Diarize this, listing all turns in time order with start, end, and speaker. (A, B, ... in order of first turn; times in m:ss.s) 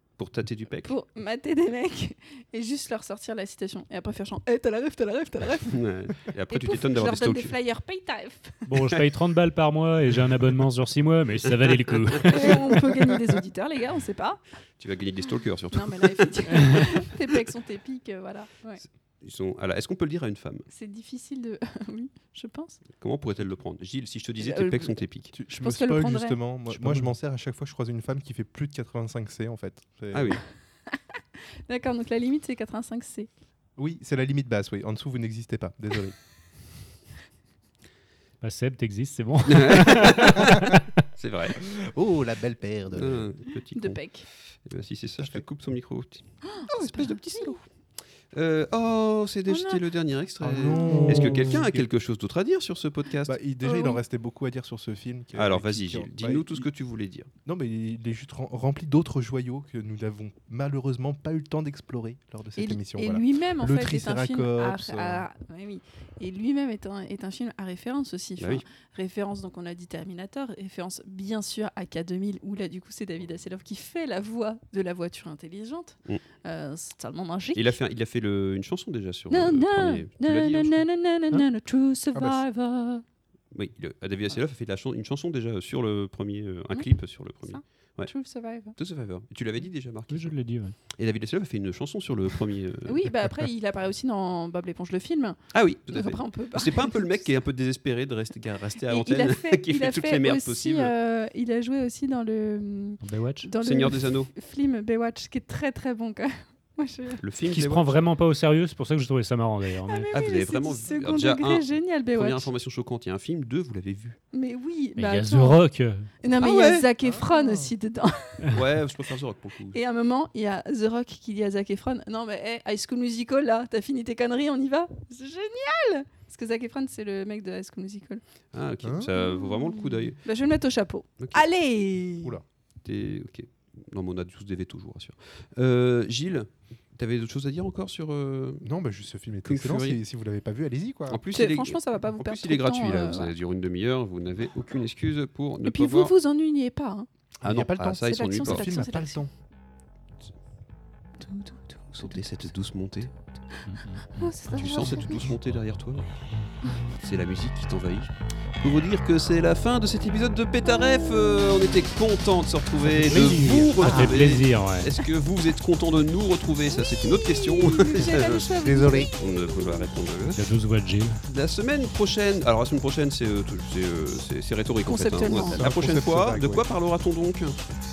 0:00.2-0:01.0 A
0:00.8-0:05.8 B
0:05.7-0:07.6 A
0:06.5-0:08.6 B
0:08.7-0:12.5 C
0:12.0-0:12.5 A
0:12.3-0:14.4 B
0:14.8-0:16.9 A
0:15.7-0:18.8 B
0:18.8-0:20.7 A
0:20.7-0:22.8 B
0:22.9-0:25.3 A
0:24.4-0:26.4 B
0:25.3-0:30.4 D
0:26.7-0:27.1 C
0:30.1-0:30.4 A
0:31.7-0:33.3 B
0:33.8-0:36.2 D
0:38.4-0:40.8 C
0:39.5-0:40.5 A
0:41.2-0:41.7 A
0:41.8-0:43.3 D
0:42.9-0:47.6 A
0:43.8-0:44.3 B
0:45.2-0:45.4 D
0:46.6-0:47.6 B
0:48.3-0:53.4 A
0:49.5-0:49.8 B
0:50.4-0:51.9 D
0:50.8-0:51.5 B
0:53.3-0:56.7 D
0:53.6-0:54.0 B
0:55.4-0:57.3 A
0:57.4-1:05.3 D
1:02.6-1:17.8 B
1:08.4-1:08.6 A
1:17.6-1:20.8 A
1:19.3-1:23.0 B
1:23.5-1:28.1 A
1:27.4-1:28.8 B
1:28.8-1:30.4 A
1:30.1-1:30.8 C
1:30.9-1:33.1 A
1:32.9-1:37.3 B
1:35.5-1:40.9 A
1:38.9-1:47.2 B
1:43.0-1:43.5 C
1:43.6-1:44.3 A
1:47.2-1:48.0 A
1:47.5-1:50.1 C
1:49.9-1:52.5 B
1:50.1-1:54.2 A
1:54.3-1:55.6 B
1:55.0-1:56.1 C
1:56.2-1:58.6 B
1:56.4-1:56.9 A
1:57.0-1:57.7 D
1:58.5-1:59.8 A
1:59.7-2:08.2 B
2:08.5-2:10.2 A
2:08.8-2:09.1 D
2:09.2-2:12.4 B
2:12.8-2:18.7 A
2:18.6-2:21.2 D
2:19.4-2:20.0 A
2:21.1-2:26.1 A
2:21.3-2:23.3 B
2:25.6-2:27.1 B
2:27.4-2:29.3 D
2:27.4-2:28.9 A
2:28.0-2:29.2 B
2:31.2-2:32.2 B
2:32.0-2:33.1 A
2:33.7-2:34.4 C
2:33.7-2:35.3 B
2:34.5-2:36.1 A
2:35.4-2:36.5 C
2:36.9-2:48.5 A
2:42.9-2:44.9 C
2:43.8-2:44.1 B
2:46.7-2:49.9 B
2:48.6-2:49.1 D
2:49.2-2:50.4 A
2:50.3-2:51.2 C
2:51.3-2:57.6 A
2:54.8-2:55.7 B
2:55.4-2:56.7 D